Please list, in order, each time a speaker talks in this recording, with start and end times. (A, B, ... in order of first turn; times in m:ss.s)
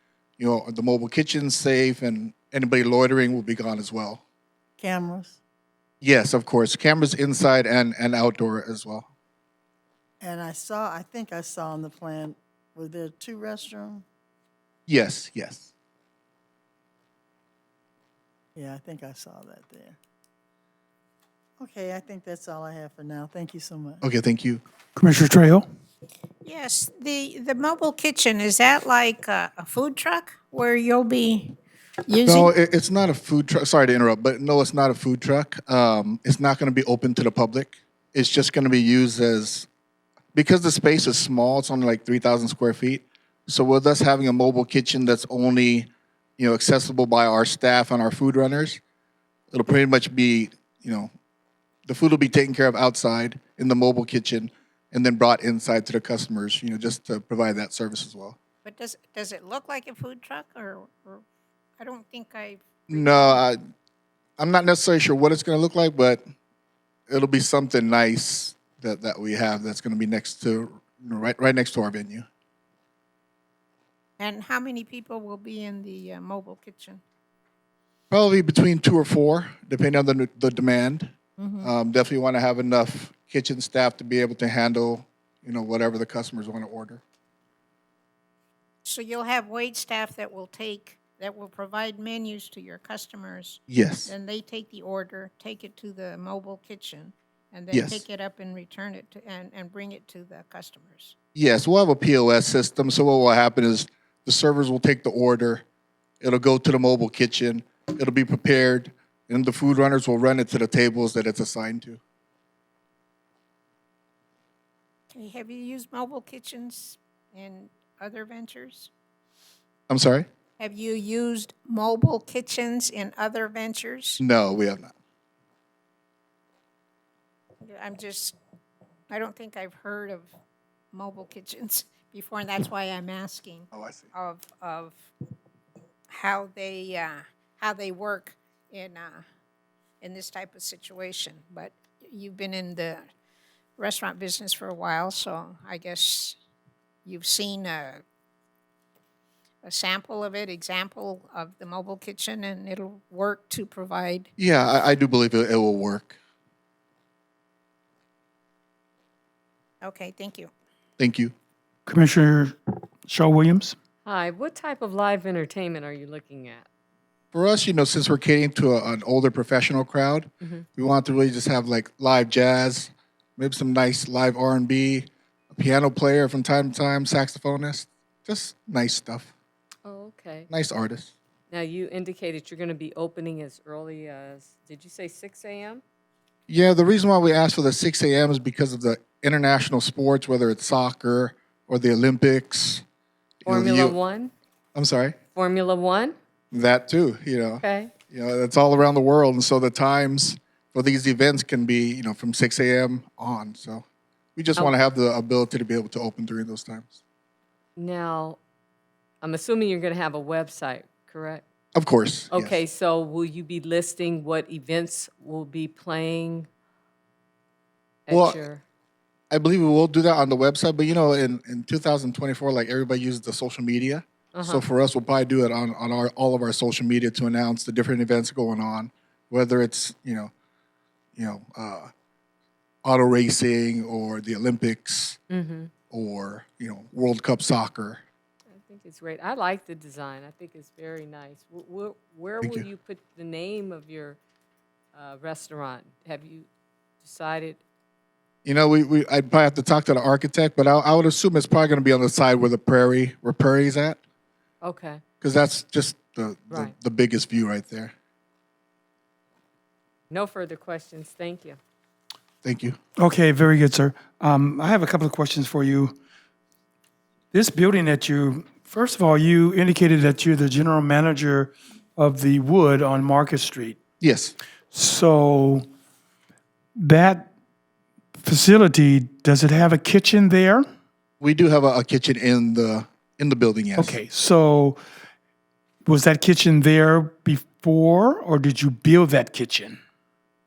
0:00.4-0:04.2 A
0:04.8-0:05.4 B
0:06.0-0:09.1 A
0:10.2-0:14.0 B
0:14.9-0:15.7 A
0:18.6-0:20.0 B
0:21.6-0:24.0 B
0:24.0-0:24.6 A
0:25.0-0:25.7 C
0:26.4-0:31.6 D
0:32.1-0:32.5 D
0:32.2-0:39.7 A
0:40.4-0:48.8 A
0:49.5-0:51.1 A
0:51.9-0:58.4 A
0:58.6-1:01.2 D
1:01.8-1:03.4 D
1:02.9-1:03.6 A
1:04.4-1:06.2 A
1:07.1-1:12.3 A
1:14.2-1:17.0 D
1:18.1-1:21.1 A
1:21.4-1:21.7 D
1:21.6-1:27.0 A
1:28.8-1:41.2 D
1:33.7-1:34.1 A
1:37.7-1:38.0 A
1:41.4-1:45.6 A
1:46.2-1:52.0 A
1:55.1-1:58.9 D
1:59.9-2:00.3 A
2:00.6-2:04.2 D
2:04.2-2:04.9 A
2:07.6-2:08.4 D
2:09.1-2:10.3 D
2:10.9-2:15.1 D
2:13.7-2:14.1 A
2:16.1-2:19.2 D
2:20.0-2:23.0 D
2:23.8-2:26.4 D
2:27.1-2:28.0 D
2:29.6-2:34.3 D
2:34.4-2:36.2 A
2:39.8-2:40.5 D
2:41.0-2:41.3 A
2:41.9-2:42.6 C
2:43.1-2:43.8 C
2:44.0-2:46.7 E
2:47.3-2:59.3 A
2:59.8-3:00.5 E
3:00.5-3:01.1 A
3:01.5-3:05.8 E
3:06.5-3:12.8 A
3:13.4-3:14.0 A
3:13.5-3:14.3 E
3:14.8-3:15.2 A
3:15.3-3:16.2 E
3:16.5-3:23.8 A
3:17.6-3:17.9 E
3:24.4-3:27.0 A
3:27.8-3:28.4 E
3:29.2-3:31.4 E
3:31.8-3:32.6 A
3:32.3-3:36.5 E
3:38.1-3:38.6 E
3:38.1-3:38.4 A
3:39.3-3:50.3 A
3:44.3-3:44.6 E
3:51.2-3:51.9 A
3:52.8-3:55.2 A
3:55.3-3:55.7 E
3:55.9-3:58.0 A
3:58.5-4:04.2 E
4:04.9-4:06.5 E
4:07.0-4:07.6 E
4:08.4-4:14.0 A
4:14.6-4:15.0 E
4:15.2-4:17.9 A
4:20.1-4:21.6 E
4:22.4-4:22.8 A
4:23.0-4:26.0 C
4:27.3-4:33.8 C
4:34.0-4:34.3 A
4:34.7-4:35.7 C
4:36.8-4:37.3 C
4:38.2-4:40.6 C
4:41.2-4:44.0 A
4:43.8-4:44.8 C
4:45.9-4:49.8 C